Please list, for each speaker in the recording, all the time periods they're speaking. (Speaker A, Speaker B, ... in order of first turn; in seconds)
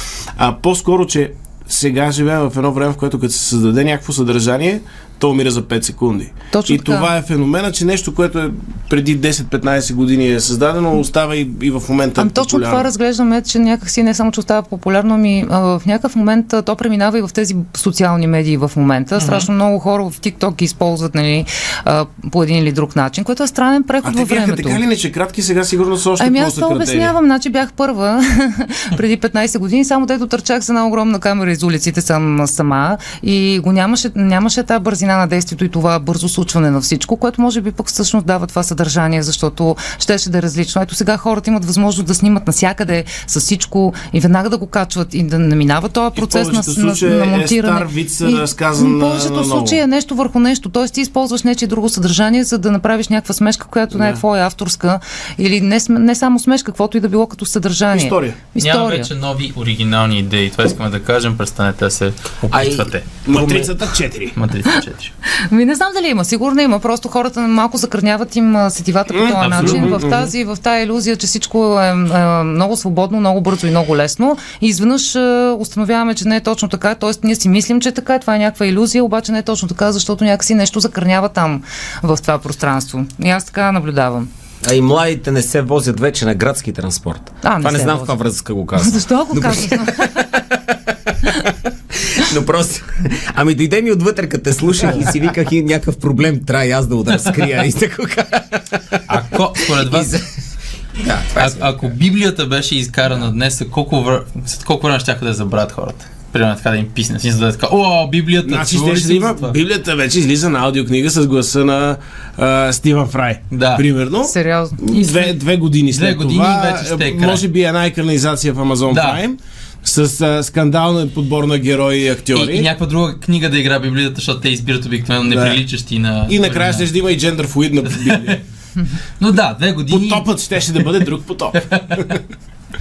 Speaker A: 0.4-12.9, 24.0-27.1, 46.2-49.8, 53.9-54.2, 57.9-58.4, 63.3-64.4, 69.1-70.3, 108.4-122.7, 125.3-125.6, 126.3-128.4, 129.9-132.2
Speaker B: 6.5-7.1, 12.2-24.8, 26.2-59.1, 65.3-84.3, 87.4-88.2, 88.8-90.4, 114.2-115.1
Speaker C: 19.2-19.5, 58.6-63.0, 64.4-65.1, 69.4-70.0, 99.1-100.2, 101.4-109.5, 113.5-113.8, 115.9-117.4, 118.9-119.2, 122.3-126.9, 128.0-128.4, 129.2-130.3, 131.6-132.2
Speaker D: 62.5-63.7, 84.6-99.0, 99.8-100.3, 101.0-101.7